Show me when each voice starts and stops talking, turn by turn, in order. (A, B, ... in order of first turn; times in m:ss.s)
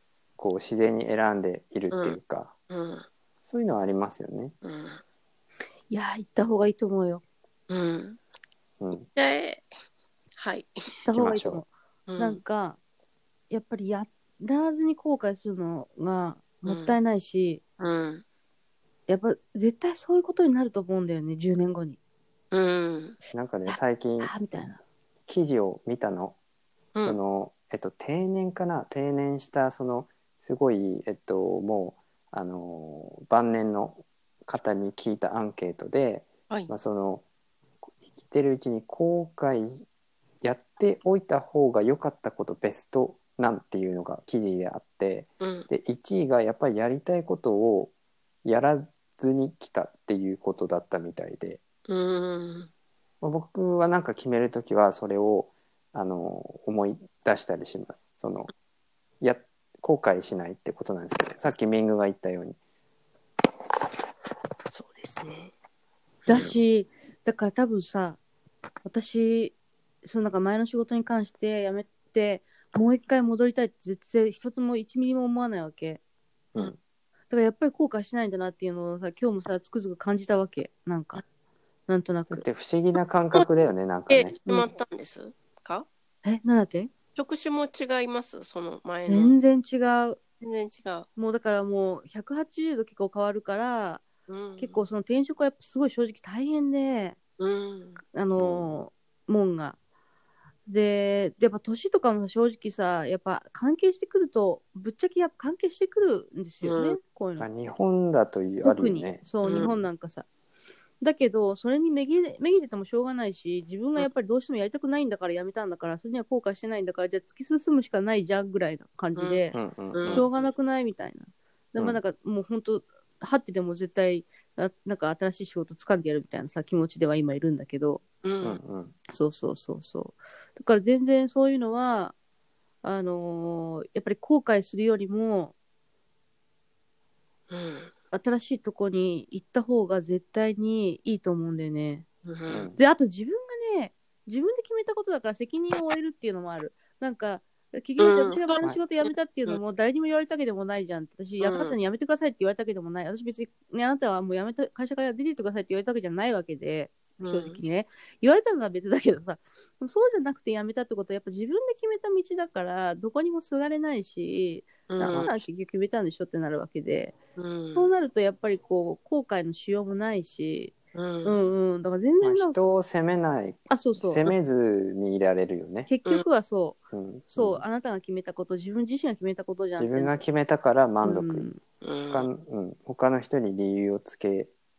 0:00.4-0:02.5 A
0:01.9-0:02.2 B
0:02.7-0:03.1 B
0:03.4-0:04.5 A
0:04.6-0:05.0 B
0:05.9-0:07.2 C
0:07.7-0:08.2 B
0:08.8-0:09.0 A
0:09.1-0:09.7 B
0:10.4-0:10.8 B
0:11.0-0:12.8 C
0:11.1-0:11.6 A
0:12.1-0:12.4 B
0:13.5-0:17.6 C
0:16.6-0:16.9 B
0:17.8-0:18.2 B
0:19.1-0:22.0 C
0:22.5-0:23.2 B
0:23.3-0:24.3 A
0:23.7-0:24.8 C
0:25.3-0:26.4 A
0:27.0-0:37.2 A
0:38.2-0:39.8 A
0:40.4-0:47.9 A
0:45.4-0:45.7 B
0:48.4-0:51.6 A
0:51.9-0:52.7 B
0:53.2-0:58.5 A
0:59.2-1:02.6 A
1:04.7-1:05.5 B
1:06.2-1:06.5 B
1:06.3-1:08.2 C
1:08.8-1:16.0 C
1:17.3-1:21.2 C
1:21.9-1:22.4 C
1:22.3-1:24.3 A
1:24.1-1:25.9 B
1:26.2-1:26.9 C
1:27.2-1:29.4 B
1:29.1-1:30.2 C
1:30.4-1:31.1 B
1:31.2-1:34.0 C
1:34.3-1:34.8 B
1:34.6-1:37.2 C
1:37.4-1:38.0 B
1:38.1-1:39.8 C
1:38.4-1:38.8 A
1:40.7-1:47.5 C
1:46.6-1:47.0 B
1:47.4-1:49.7 A
1:48.6-1:50.2 C
1:49.4-1:49.7 B
1:51.0-2:08.0 C
1:59.2-2:00.3 B
1:59.5-2:00.3 A
2:08.2-2:08.6 B
2:08.4-2:08.9 A
2:09.1-2:12.1 C
2:12.8-2:15.5 C
2:17.5-2:17.9 B
2:18.1-2:22.0 C
2:22.2-2:22.7 B
2:22.5-2:22.8 A
2:22.8-2:47.2 C
2:28.0-2:29.6 B
2:31.4-2:31.8 B
2:37.2-2:37.6 B
2:44.9-2:45.3 B
2:47.4-2:47.9 B
2:47.7-2:52.6 C
2:50.9-2:51.4 B
2:52.2-2:55.9 A
2:53.7-2:54.3 C
2:55.9-3:00.1 C
2:56.9-2:57.6 A
2:59.8-3:01.5 A
3:01.0-3:01.6 C
3:01.8-3:02.3 B
3:02.1-3:04.5 A